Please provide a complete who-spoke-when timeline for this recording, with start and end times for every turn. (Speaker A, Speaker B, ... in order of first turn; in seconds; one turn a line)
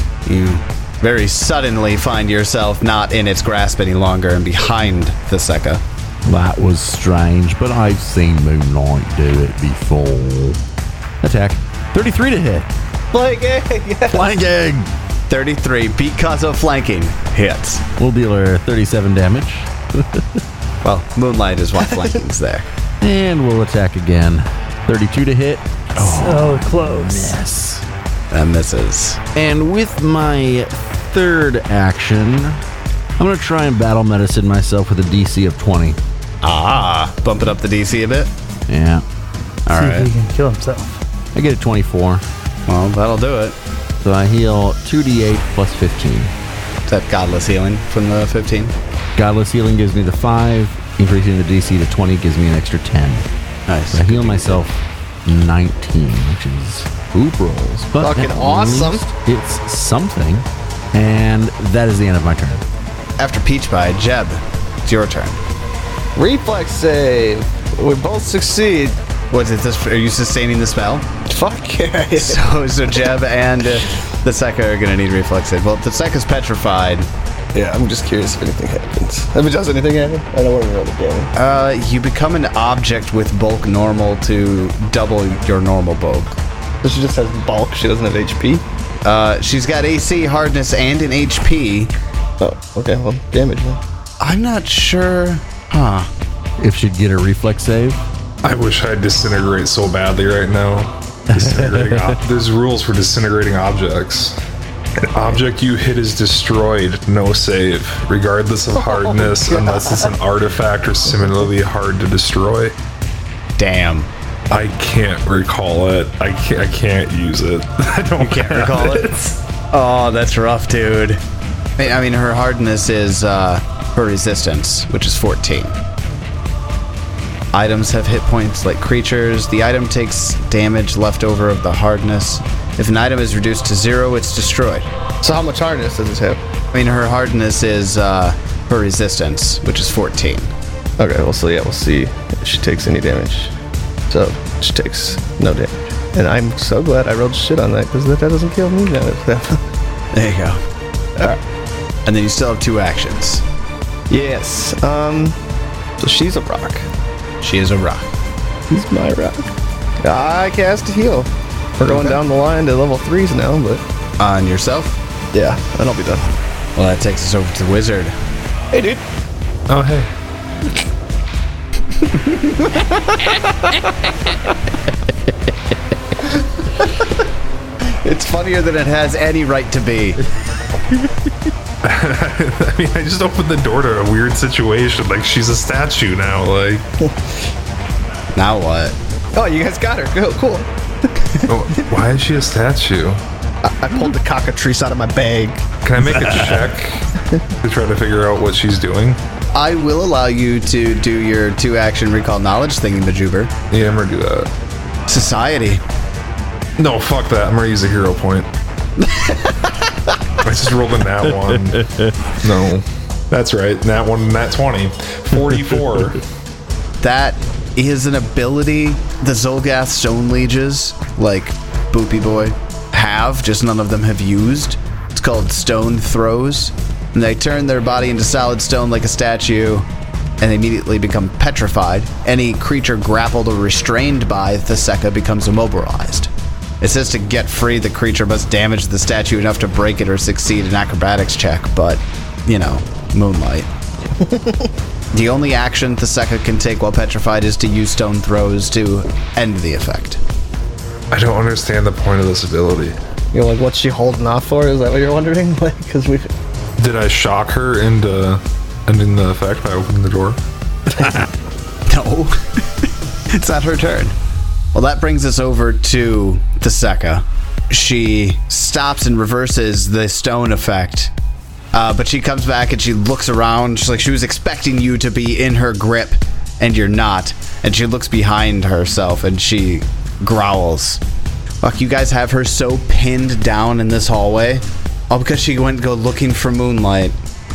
Speaker A: 0.3-5.8
Speaker B: 6.3-10.6
Speaker B: 11.2-12.7
Speaker C: 13.1-14.3
Speaker B: 14.1-14.8
Speaker A: 15.3-17.9
Speaker B: 18.0-20.2
Speaker A: 20.8-22.7
Speaker B: 23.0-27.8
Speaker D: 26.0-27.4
Speaker A: 28.3-29.2
Speaker B: 29.4-32.5
Speaker B: 33.2-36.0
Speaker A: 36.4-38.3
Speaker B: 38.7-39.0
Speaker A: 39.7-40.1
Speaker D: 39.7-41.0
Speaker B: 41.4-42.2
Speaker A: 42.7-43.6
Speaker B: 44.0-46.3
Speaker A: 46.9-48.8
Speaker B: 49.2-53.2
Speaker A: 53.7-54.6
Speaker B: 53.9-54.7
Speaker B: 55.3-62.6
Speaker C: 58.0-59.0
Speaker A: 63.2-65.4
Speaker C: 66.2-69.0
Speaker A: 69.3-71.1
Speaker C: 71.3-72.4
Speaker A: 72.2-77.1
Speaker C: 77.5-81.3
Speaker A: 81.3-86.4
Speaker C: 86.8-88.6
Speaker A: 89.0-91.9
Speaker C: 92.4-93.8
Speaker A: 94.2-96.1
Speaker B: 96.6-98.0
Speaker E: 98.4-104.4
Speaker B: 101.4-102.1
Speaker E: 105.0-112.8
Speaker A: 113.6-114.1
Speaker E: 114.5-119.2
Speaker A: 118.2-121.2
Speaker A: 121.8-125.8
Speaker A: 127.5-134.9
Speaker C: 135.2-136.4
Speaker A: 136.7-140.5
Speaker C: 141.0-143.5
Speaker C: 144.1-149.7
Speaker A: 150.1-150.6
Speaker A: 152.1-153.4
Speaker C: 154.1-155.4
Speaker C: 156.0-156.9
Speaker A: 157.4-158.1
Speaker C: 158.7-159.5
Speaker C: 160.0-163.8
Speaker A: 164.2-165.0
Speaker C: 165.3-166.3
Speaker A: 166.8-168.2
Speaker C: 168.7-169.0
Speaker E: 169.7-170.1
Speaker C: 172.2-174.4
Speaker A: 177.8-180.2
Speaker E: 181.8-186.9
Speaker A: 188.3-189.0
Speaker C: 189.3-191.5
Speaker E: 191.5-193.2
Speaker C: 193.6-195.7
Speaker E: 195.8-197.1
Speaker E: 197.6-199.2
Speaker A: 199.5-203.5
Speaker E: 203.7-204.5
Speaker A: 205.1-205.8
Speaker E: 206.8-208.5
Speaker A: 209.0-209.9
Speaker E: 210.4-211.9
Speaker E: 212.4-216.2
Speaker A: 217.0-229.9
Speaker A: 230.4-243.7
Speaker C: 244.2-244.7
Speaker A: 245.1-250.2
Speaker E: 251.1-253.0
Speaker C: 253.3-256.3
Speaker E: 256.8-260.4
Speaker A: 261.9-262.6
Speaker A: 263.3-264.1
Speaker A: 264.7-271.1
Speaker A: 271.7-281.0
Speaker A: 281.6-287.2